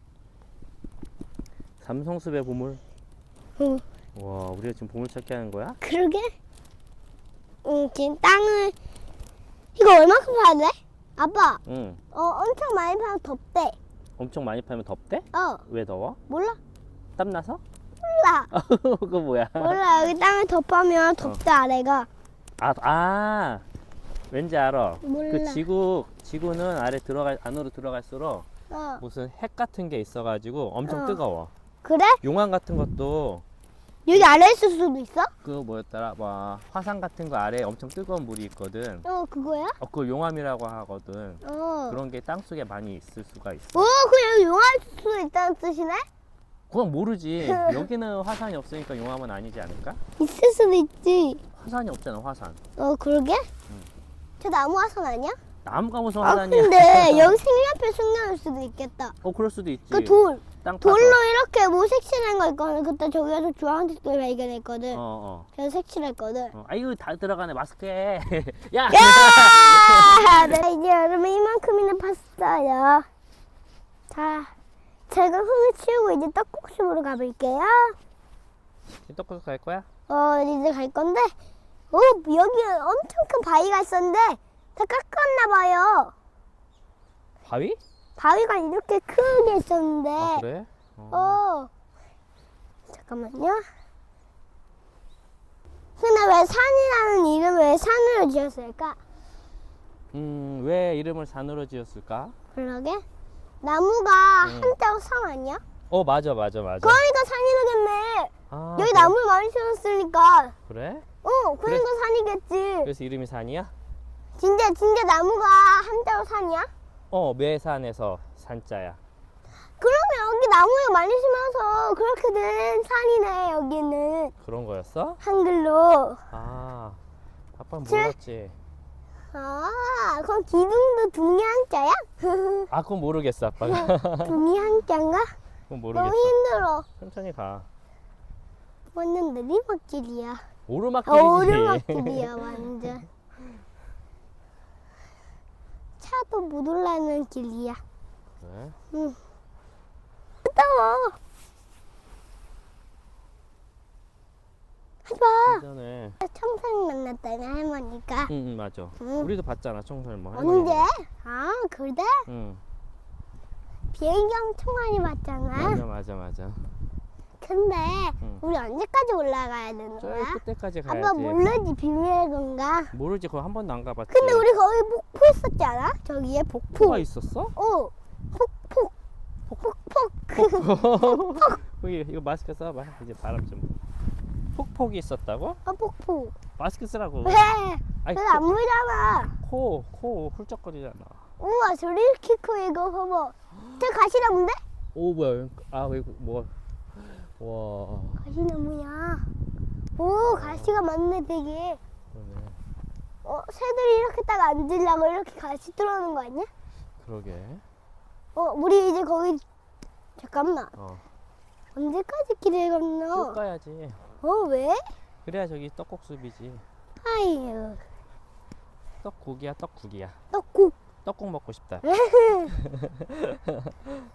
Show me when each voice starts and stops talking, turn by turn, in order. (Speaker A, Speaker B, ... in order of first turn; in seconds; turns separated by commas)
Speaker A: 1.8-2.8, Speaker B: 3.6-3.8, Speaker A: 4.1-5.8, Speaker B: 5.8-6.3, Speaker B: 7.6-8.7, Speaker B: 9.7-11.6, Speaker A: 11.7-12.0, Speaker B: 12.1-13.8, Speaker A: 14.2-16.2, Speaker B: 15.3-15.6, Speaker B: 16.3-16.6, Speaker A: 17.1-17.6, Speaker B: 18.0-18.5, Speaker A: 18.5-19.8, Speaker B: 19.6-22.1, Speaker A: 22.6-23.6, Speaker A: 24.3-28.4, Speaker B: 25.0-25.6, Speaker B: 28.7-29.0, Speaker A: 29.0-31.5, Speaker B: 30.9-31.2, Speaker B: 31.8-32.2, Speaker A: 32.2-33.4, Speaker B: 34.0-35.3, Speaker A: 35.4-39.0, Speaker B: 39.0-39.8, Speaker A: 39.8-43.9, Speaker B: 41.4-42.0, Speaker B: 43.7-46.0, Speaker A: 46.7-50.0, Speaker B: 47.4-47.8, Speaker B: 50.2-51.4, Speaker A: 51.5-52.6, Speaker B: 52.8-53.5, Speaker B: 54.4-55.4, Speaker A: 55.6-57.4, Speaker B: 56.2-59.1, Speaker A: 59.2-61.2, Speaker B: 59.9-65.0, Speaker A: 64.9-65.5, Speaker B: 65.5-66.5, Speaker A: 66.5-70.5, Speaker B: 68.9-73.1, Speaker B: 74.1-74.5, Speaker B: 75.1-78.0, Speaker A: 79.0-79.9, Speaker B: 80.1-81.3, Speaker B: 81.9-86.1, Speaker A: 87.4-87.8, Speaker B: 88.2-90.4, Speaker A: 90.2-91.4, Speaker B: 91.1-91.7, Speaker B: 92.9-93.6, Speaker B: 96.0-99.0, Speaker A: 100.1-102.3, Speaker B: 102.5-103.0, Speaker B: 103.6-105.6, Speaker A: 104.4-104.7, Speaker A: 105.9-107.0, Speaker B: 106.8-110.5, Speaker A: 108.5-109.2, Speaker A: 110.7-111.0, Speaker B: 111.2-112.9, Speaker A: 112.8-113.7, Speaker B: 114.4-116.7, Speaker A: 117.1-119.0, Speaker B: 119.8-124.3, Speaker A: 124.4-125.2, Speaker B: 125.2-126.2, Speaker A: 126.3-127.0, Speaker A: 127.6-128.6, Speaker B: 127.8-128.1, Speaker B: 129.3-132.7, Speaker A: 132.7-134.3, Speaker B: 133.8-135.3, Speaker A: 135.7-136.3, Speaker B: 135.9-136.8, Speaker A: 137.0-137.7, Speaker B: 138.9-140.4, Speaker A: 140.7-142.4, Speaker B: 141.1-143.1, Speaker B: 146.0-147.8, Speaker A: 148.4-148.8, Speaker B: 148.9-149.2, Speaker B: 150.4-151.2, Speaker B: 155.0-155.6, Speaker A: 155.4-156.2, Speaker B: 156.2-158.3, Speaker A: 158.3-160.8, Speaker B: 159.0-159.3, Speaker B: 160.3-162.2, Speaker A: 162.3-162.6, Speaker B: 163.9-165.8, Speaker A: 165.5-166.7, Speaker B: 167.4-172.9, Speaker A: 170.0-171.4, Speaker A: 172.9-174.4, Speaker B: 174.1-177.0, Speaker A: 176.7-177.5, Speaker B: 177.6-178.9, Speaker B: 179.6-181.6, Speaker A: 180.3-183.8, Speaker A: 184.5-185.6, Speaker B: 185.7-186.3, Speaker A: 186.6-187.5, Speaker B: 187.2-189.4, Speaker A: 188.0-188.4, Speaker A: 189.4-191.2, Speaker B: 191.4-194.6, Speaker A: 194.9-198.2, Speaker B: 198.2-199.3, Speaker B: 199.9-201.8, Speaker A: 200.3-200.7, Speaker A: 202.1-202.6, Speaker B: 203.2-206.5, Speaker A: 207.0-207.6, Speaker B: 208.3-209.4, Speaker B: 210.2-210.7, Speaker A: 210.8-211.0, Speaker B: 211.7-213.4, Speaker A: 213.1-214.0, Speaker B: 214.2-214.9, Speaker A: 215.2-216.6, Speaker B: 217.0-217.8, Speaker A: 219.0-220.2, Speaker B: 220.3-220.7, Speaker A: 221.0-221.8, Speaker B: 221.8-222.5, Speaker A: 222.5-223.9